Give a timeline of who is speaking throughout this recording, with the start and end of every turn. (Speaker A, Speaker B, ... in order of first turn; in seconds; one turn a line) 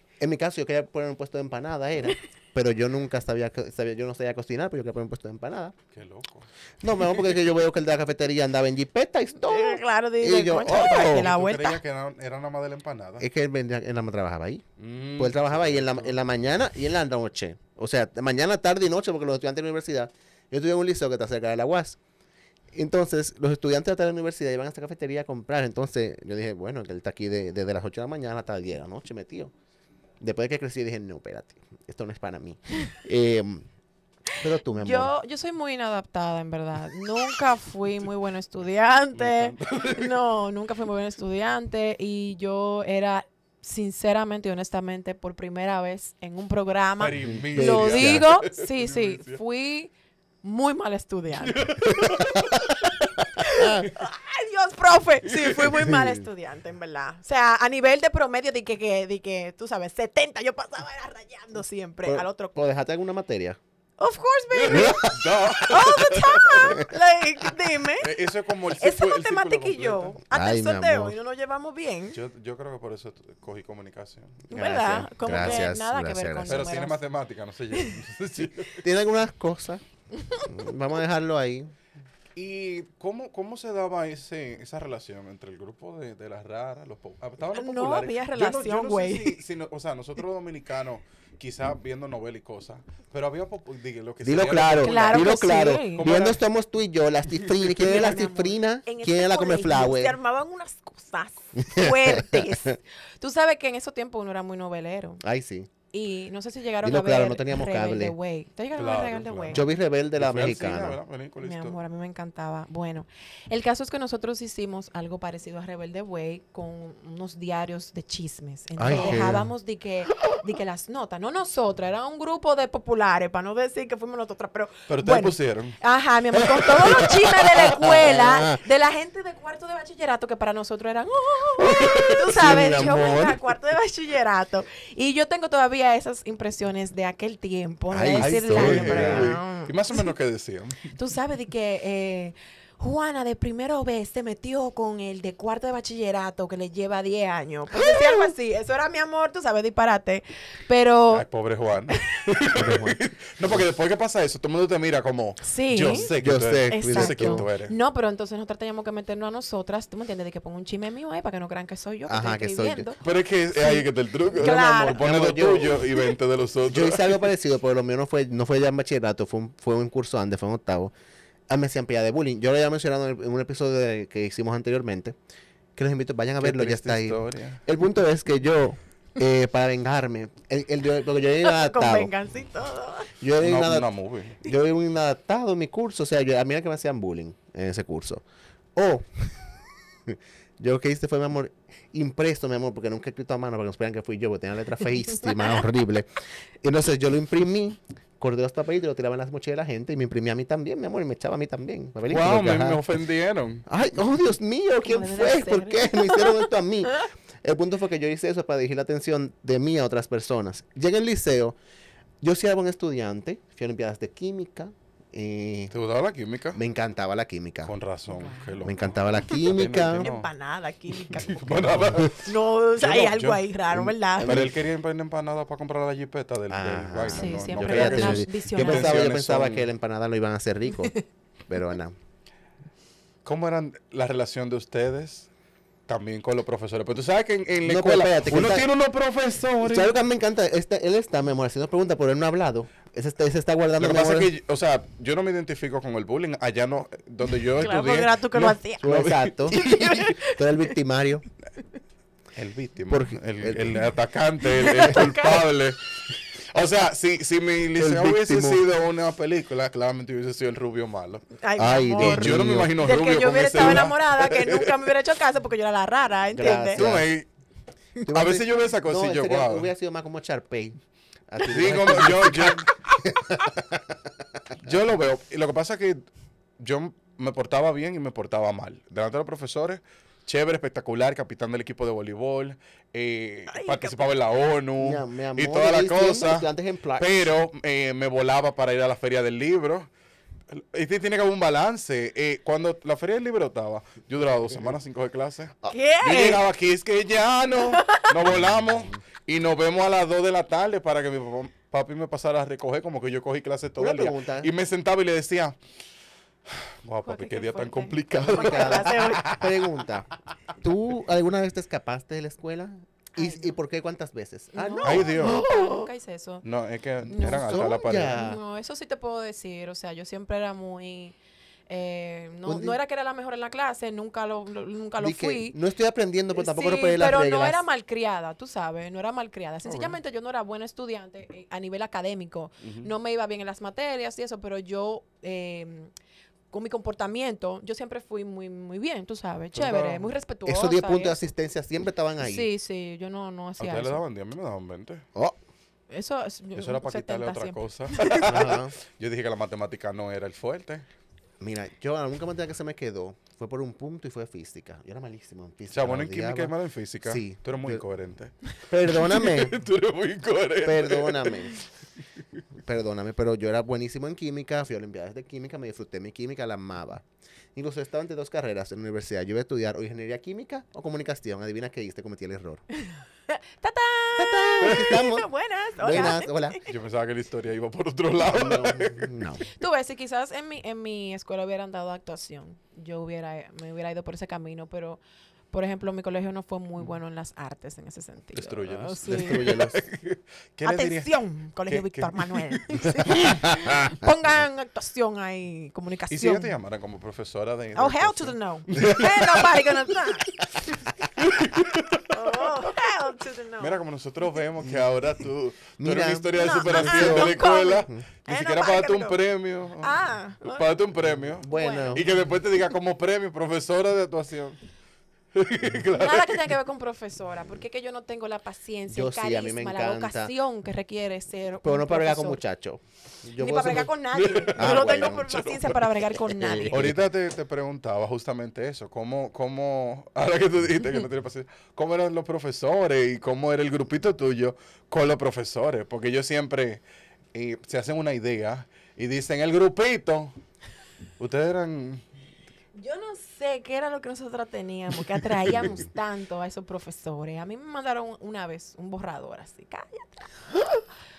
Speaker A: 0.2-5.7
Speaker B: 5.9-6.5
Speaker A: 6.8-11.3
Speaker C: 9.4-11.8
Speaker B: 10.6-13.2
Speaker A: 13.2-14.6
Speaker B: 14.8-16.2
Speaker A: 15.2-22.0
Speaker A: 22.7-29.5
Speaker A: 30.2-33.6
Speaker C: 34.4-52.4
Speaker A: 34.4-35.1
Speaker B: 39.1-40.2
Speaker B: 47.0-49.4
Speaker A: 47.2-48.3
Speaker B: 51.4-52.8
Speaker C: 53.4-62.6
Speaker A: 53.5-53.9
Speaker B: 55.2-55.9
Speaker A: 55.8-56.2
Speaker A: 62.0-63.6
Speaker C: 64.0-65.1
Speaker B: 64.5-66.8
Speaker A: 64.7-65.2
Speaker C: 65.6-68.1
Speaker B: 67.9-70.2
Speaker C: 68.7-72.2
Speaker A: 70.3-71.2
Speaker B: 72.1-74.4
Speaker C: 74.5-77.0
Speaker A: 74.5-76.7
Speaker B: 76.5-78.8
Speaker A: 78.8-79.8
Speaker C: 80.1-80.5
Speaker A: 80.4-81.7
Speaker B: 82.3-96.4
Speaker C: 87.5-89.4
Speaker A: 94.2-100.2
Speaker C: 94.8-96.1
Speaker C: 97.8-105.2
Speaker A: 101.6-102.7
Speaker A: 105.2-105.7
Speaker C: 105.9-109.6
Speaker A: 106.8-108.1
Speaker B: 108.8-111.8
Speaker A: 109.5-111.0
Speaker C: 111.4-140.1
Speaker A: 118.8-119.5
Speaker B: 118.9-119.2
Speaker B: 124.9-125.8
Speaker B: 126.8-127.2
Speaker A: 127.7-128.6
Speaker B: 131.6-132.5
Speaker A: 131.8-133.4
Speaker A: 137.9-139.4
Speaker B: 138.2-140.9
Speaker C: 140.9-151.2
Speaker B: 151.1-157.7
Speaker C: 151.9-152.3
Speaker A: 152.5-153.6
Speaker C: 155.4-156.1
Speaker A: 155.9-157.5
Speaker C: 156.7-163.0
Speaker A: 162.1-162.9
Speaker B: 163.0-167.2
Speaker C: 163.5-165.1
Speaker A: 164.4-165.9
Speaker A: 166.7-170.9
Speaker A: 171.5-175.2
Speaker A: 175.8-182.1
Speaker B: 176.4-177.6
Speaker C: 181.4-183.1
Speaker A: 183.2-183.9
Speaker B: 183.4-184.4
Speaker A: 184.4-188.2
Speaker A: 188.7-189.3
Speaker A: 190.1-196.1
Speaker A: 196.6-202.8
Speaker B: 202.1-203.7
Speaker A: 203.7-211.6
Speaker C: 204.8-206.4
Speaker A: 212.2-215.7
Speaker B: 215.7-216.6
Speaker A: 216.5-217.7
Speaker B: 217.7-220.3
Speaker C: 218.1-218.7
Speaker A: 218.6-220.1
Speaker C: 219.9-224.4
Speaker B: 221.1-222.2
Speaker A: 221.5-222.1
Speaker B: 222.8-223.4
Speaker A: 223.7-224.5
Speaker B: 224.2-229.7
Speaker A: 226.5-230.9
Speaker C: 227.1-229.0
Speaker A: 231.5-231.9
Speaker B: 233.2-235.3
Speaker B: 235.9-239.9
Speaker A: 237.6-238.7
Speaker A: 239.6-244.3
Speaker B: 243.8-250.1
Speaker C: 247.6-248.9
Speaker A: 248.8-251.2
Speaker C: 249.5-250.6
Speaker B: 252.3-255.8
Speaker A: 252.9-253.8
Speaker C: 254.5-255.4
Speaker B: 256.5-261.2
Speaker A: 257.7-258.6
Speaker C: 261.4-266.8
Speaker A: 261.6-262.7
Speaker B: 262.0-264.8
Speaker A: 263.6-263.9
Speaker A: 266.3-267.1
Speaker B: 266.8-267.3
Speaker A: 268.0-270.8
Speaker B: 268.1-269.7
Speaker A: 271.3-274.1
Speaker B: 271.4-273.0
Speaker B: 274.6-276.0
Speaker B: 276.6-289.9
Speaker C: 283.5-284.1
Speaker A: 284.8-287.3
Speaker B: 290.5-305.6
Speaker C: 295.7-296.4
Speaker C: 297.6-298.1
Speaker A: 298.3-298.9
Speaker A: 303.8-304.5
Speaker B: 306.5-309.5
Speaker C: 307.0-309.3
Speaker A: 308.2-310.1
Speaker A: 310.6-315.8
Speaker C: 313.1-313.6
Speaker C: 314.5-316.4
Speaker B: 314.8-315.4
Speaker B: 316.4-318.2
Speaker A: 317.1-318.4
Speaker C: 317.1-321.1
Speaker C: 321.7-325.6
Speaker A: 322.4-322.8
Speaker A: 325.0-327.6
Speaker C: 326.3-335.9
Speaker B: 329.6-329.9
Speaker B: 332.6-332.9
Speaker C: 336.5-341.3
Speaker B: 339.5-340.1
Speaker A: 340.4-342.5
Speaker C: 342.2-344.0
Speaker B: 343.6-345.1
Speaker C: 345.9-348.4
Speaker B: 346.6-350.8
Speaker A: 348.2-348.7
Speaker A: 351.4-356.5
Speaker B: 355.7-358.3
Speaker A: 357.0-357.8
Speaker A: 358.7-359.6
Speaker B: 358.9-361.5
Speaker A: 360.6-361.6
Speaker A: 362.6-372.6
Speaker C: 372.8-376.6
Speaker A: 374.2-376.6
Speaker B: 376.6-379.1
Speaker A: 378.2-379.4
Speaker C: 379.4-385.0
Speaker C: 385.5-389.5
Speaker B: 388.3-393.3
Speaker A: 389.1-389.8
Speaker C: 390.6-396.5
Speaker A: 393.1-393.8
Speaker B: 396.1-399.9
Speaker C: 397.7-400.8
Speaker B: 401.2-402.7
Speaker C: 402.1-403.8
Speaker B: 403.6-414.6
Speaker A: 405.8-408.0
Speaker C: 406.4-409.2
Speaker C: 409.8-410.6
Speaker A: 411.4-412.1
Speaker C: 411.4-412.1
Speaker B: 415.3-416.5
Speaker C: 415.9-422.4
Speaker A: 418.9-420.3
Speaker A: 421.6-423.9
Speaker C: 423.4-426.9
Speaker B: 424.1-425.8
Speaker A: 424.5-425.4
Speaker A: 426.3-427.0
Speaker B: 426.7-436.8
Speaker B: 437.3-440.3
Speaker B: 441.2-442.0
Speaker C: 442.7-450.8